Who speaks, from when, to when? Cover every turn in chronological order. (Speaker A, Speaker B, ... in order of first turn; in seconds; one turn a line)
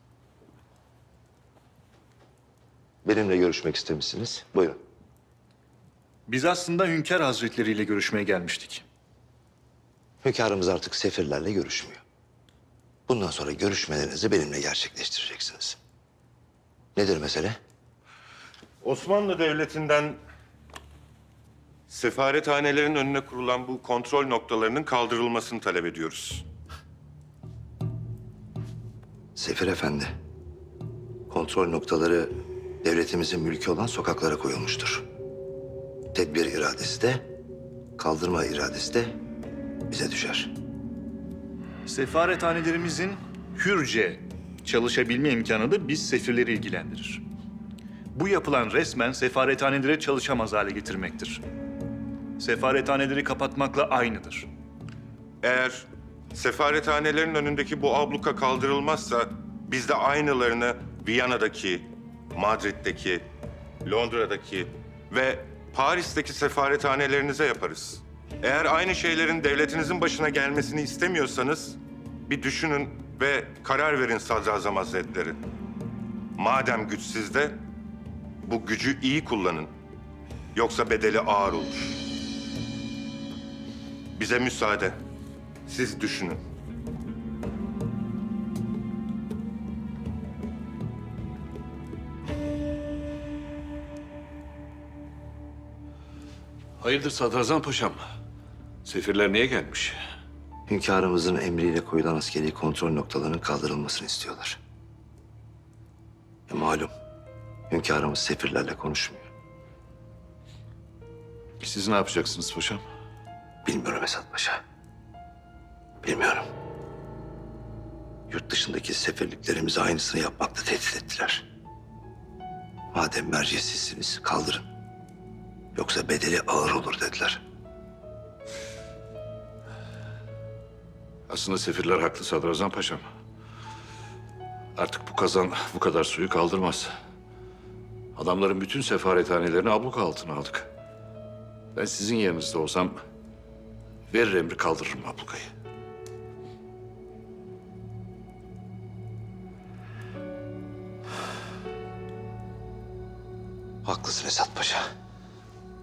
Speaker A: 3.0-4.8
Speaker B: 6.3-8.8
Speaker A: 10.2-12.0
Speaker A: 13.1-15.8
Speaker A: 16.9-17.6
Speaker C: 18.8-20.2
Speaker C: 21.9-26.4
Speaker A: 29.4-30.1
Speaker A: 31.3-35.0
Speaker A: 36.1-37.2
Speaker A: 38.0-39.1
Speaker A: 39.9-40.5
Speaker B: 41.9-47.2
Speaker B: 48.1-51.4
Speaker B: 52.4-54.5
Speaker C: 55.4-63.3
Speaker C: 63.8-75.4
Speaker C: 76.4-77.6
Speaker C: 78.4-79.7
Speaker C: 80.5-82.0
Speaker C: 84.2-85.0
Speaker C: 85.7-86.4
Speaker D: 96.8-98.0
Speaker D: 98.8-100.0
Speaker A: 100.7-104.6
Speaker A: 106.5-106.9
Speaker A: 107.7-109.3
Speaker D: 111.6-112.8
Speaker A: 113.7-114.6
Speaker A: 116.0-116.5
Speaker A: 118.3-121.5
Speaker A: 122.9-124.7
Speaker A: 125.8-127.4
Speaker D: 131.3-133.0
Speaker D: 134.8-136.9
Speaker D: 138.2-140.7
Speaker D: 141.8-143.0
Speaker D: 144.1-145.5
Speaker A: 153.8-154.8